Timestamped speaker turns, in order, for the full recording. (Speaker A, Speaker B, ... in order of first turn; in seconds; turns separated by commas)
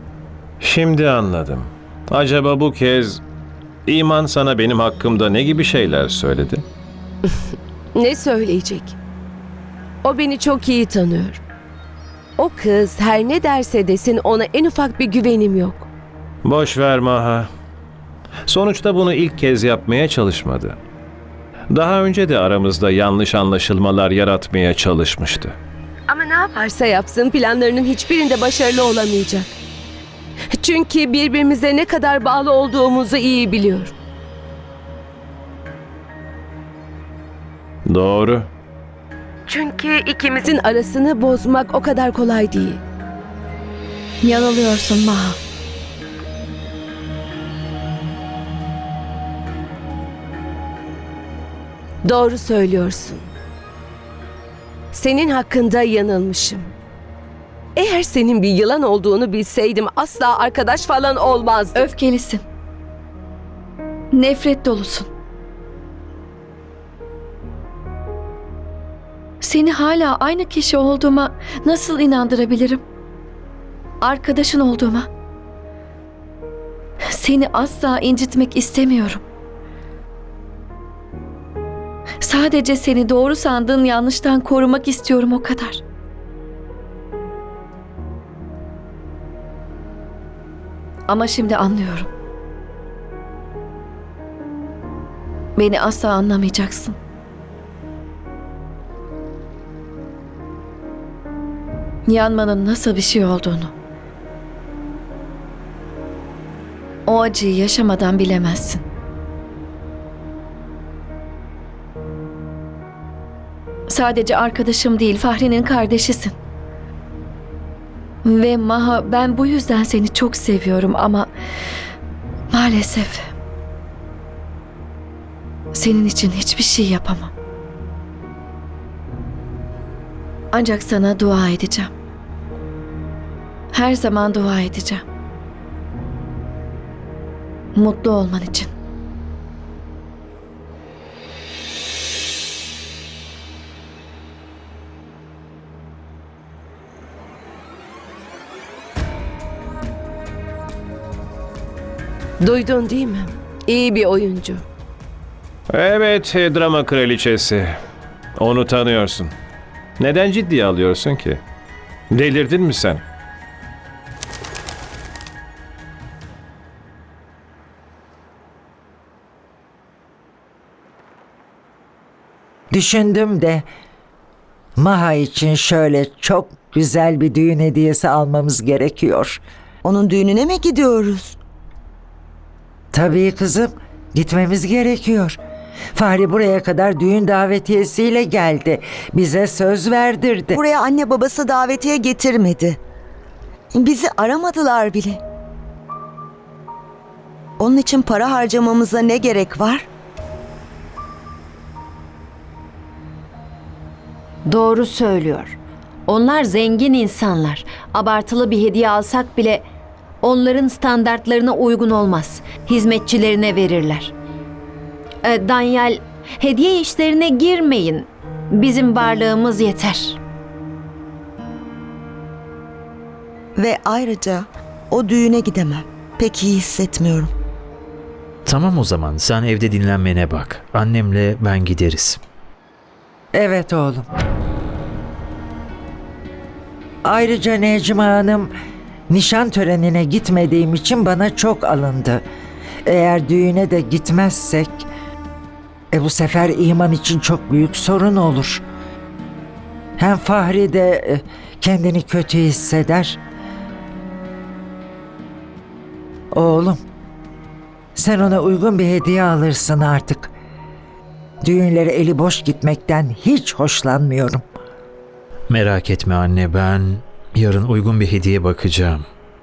Speaker A: 0.6-3.2, Speaker A: 3.9-6.7, Speaker B: 8.0-8.9, Speaker B: 10.0-11.4, Speaker B: 12.4-15.9, Speaker A: 16.4-17.5, Speaker A: 18.5-20.8, Speaker A: 21.7-25.6, Speaker B: 26.1-29.5, Speaker B: 30.5-33.9, Speaker A: 37.9-38.5, Speaker B: 39.5-42.8, Speaker C: 44.2-45.4, Speaker B: 52.0-53.3, Speaker B: 54.9-56.7, Speaker B: 57.8-61.9, Speaker C: 61.8-62.4, Speaker C: 64.1-65.1, Speaker C: 69.4-72.8, Speaker C: 74.0-75.1, Speaker C: 77.1-79.2, Speaker C: 82.2-85.8, Speaker C: 91.1-92.1, Speaker C: 95.6-97.0, Speaker C: 102.1-103.7, Speaker C: 107.1-108.8, Speaker C: 113.9-116.3, Speaker C: 118.2-121.3, Speaker C: 122.5-123.3, Speaker C: 125.7-127.3, Speaker C: 130.5-131.9, Speaker C: 133.7-135.0, Speaker C: 137.8-138.7, Speaker B: 152.4-154.6, Speaker A: 155.7-157.8, Speaker A: 158.4-159.3, Speaker A: 160.0-161.4, Speaker A: 162.1-163.0, Speaker D: 172.7-173.7, Speaker D: 174.8-179.4, Speaker E: 179.8-181.4, Speaker D: 182.9-185.4, Speaker D: 185.9-190.6, Speaker E: 190.5-192.8, Speaker E: 193.7-195.2, Speaker E: 197.6-199.9, Speaker F: 204.5-209.7, Speaker F: 210.2-214.1, Speaker F: 215.2-220.2, Speaker E: 223.6-227.3, Speaker G: 228.4-232.2, Speaker D: 233.3-234.1, Speaker D: 237.1-238.5, Speaker D: 239.1-242.2, Speaker D: 242.9-244.9, Speaker D: 245.9-248.6, Speaker D: 250.0-253.2, Speaker D: 256.3-256.8, Speaker D: 258.0-260.3, Speaker D: 261.4-264.4, Speaker G: 265.5-269.1